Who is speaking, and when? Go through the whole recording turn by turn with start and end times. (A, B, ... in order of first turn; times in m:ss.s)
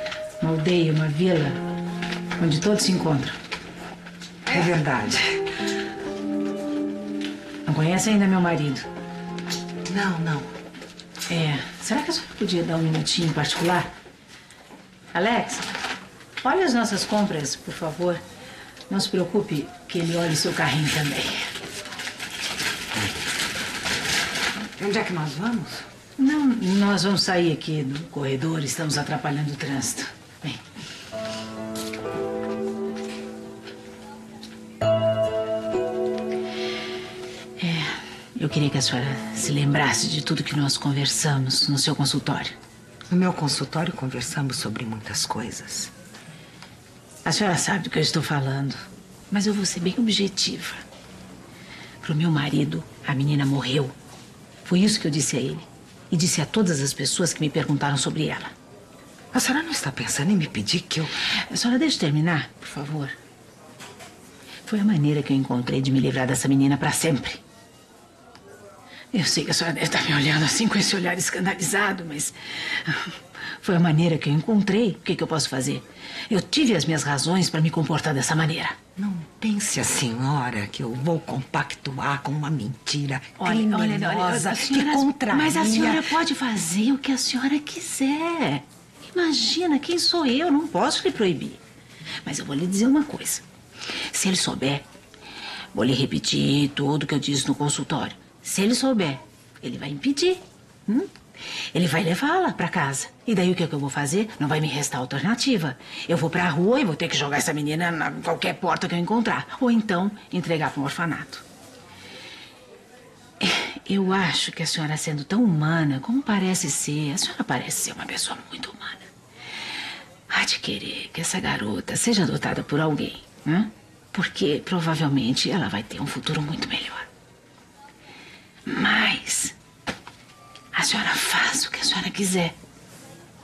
0:00.4-0:01.6 A
0:02.4-0:03.4 A
0:04.4-0:05.5 B
0:07.6-0:08.9 A
0:09.8-0:10.5 B
0:11.3-0:13.9 A
0:15.1-0:15.8 A
0:16.4-0:18.2 A
0:18.9-0:21.5 A
0:24.8-0:25.8 B
0:26.2-0:30.6 A
0:37.6-0:42.5 A
0:43.1-0:45.9 B
0:47.2-0:50.8 A
0:52.0-0:53.9 A
0:54.6-0:58.5 A
0:59.3-1:01.1 B
1:01.3-1:03.1 A
1:04.6-1:07.4 A
1:09.1-1:18.8 A
1:19.0-1:26.1 B
1:23.4-1:31.6 A
1:32.2-1:34.8 A
1:35.7-1:41.1 A
1:41.7-1:51.4 A
1:53.4-1:59.1 A
2:00.3-2:07.1 A
2:08.7-2:09.6 A
2:10.7-2:12.6 A